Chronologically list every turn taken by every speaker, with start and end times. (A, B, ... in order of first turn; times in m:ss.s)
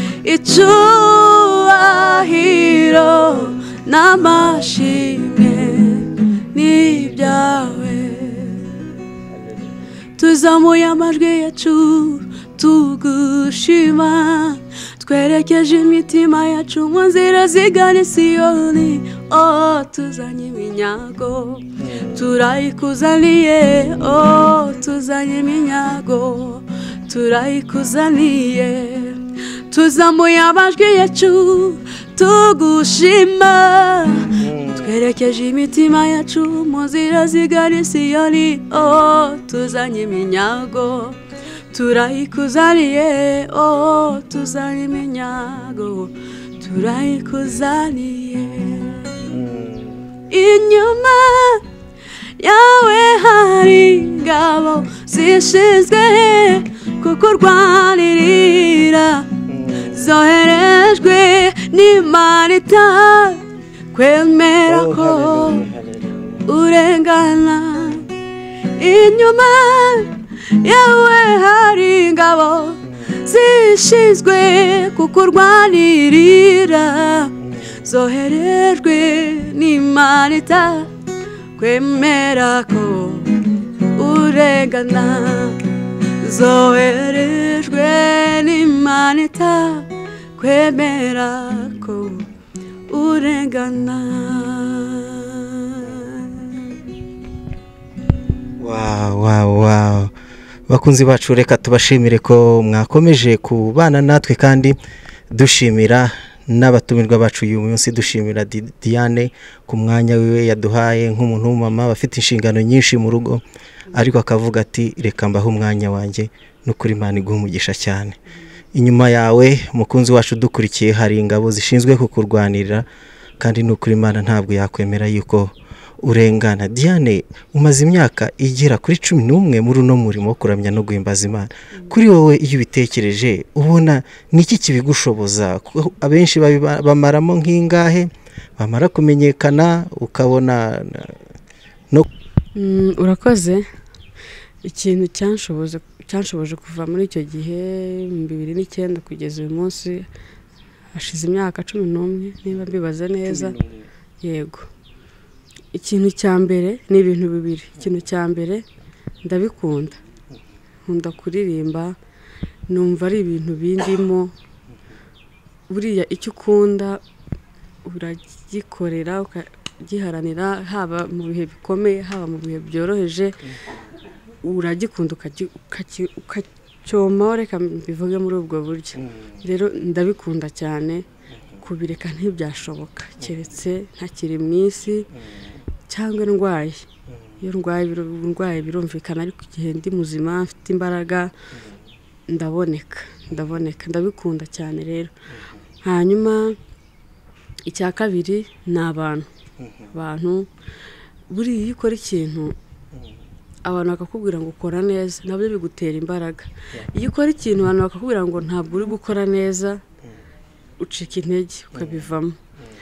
0:00.2-0:08.7 A
0:10.2-0:41.2 A
0:21.8-0:22.2 B
0:34.4-0:34.8 B
0:41.7-0:49.1 A
0:49.3-0:50.0 B
0:50.3-0:51.6 A
0:52.4-1:03.4 A
0:59.5-0:59.9 B
1:03.9-1:05.6 A
1:04.7-1:06.4 B
1:06.5-1:08.1 A
1:08.8-1:20.9 A
1:21.6-1:32.3 A
1:32.9-1:36.5 A
1:38.6-1:40.1 B
1:40.7-1:44.8 B
1:45.3-1:58.2 B
1:58.7-2:02.9 B
2:03.4-2:21.2 B
2:22.6-2:23.7 A
2:24.6-2:30.1 A
2:30.9-2:33.6 A
2:34.2-2:34.7 A
2:35.7-2:38.6 A
2:39.2-2:40.0 A
2:40.9-2:42.0 A
2:42.7-2:44.3 A
2:45.7-2:47.0 A
2:47.8-2:53.4 A
2:54.4-3:01.0 A
3:01.6-3:05.1 A
3:05.9-3:06.9 A
3:07.4-3:11.3 A
3:12.3-3:15.1 A
3:15.8-3:16.6 A
3:17.7-3:19.3 A
3:19.9-3:20.5 A
3:21.3-3:22.6 A
3:23.6-3:29.8 A
3:30.8-3:32.4 A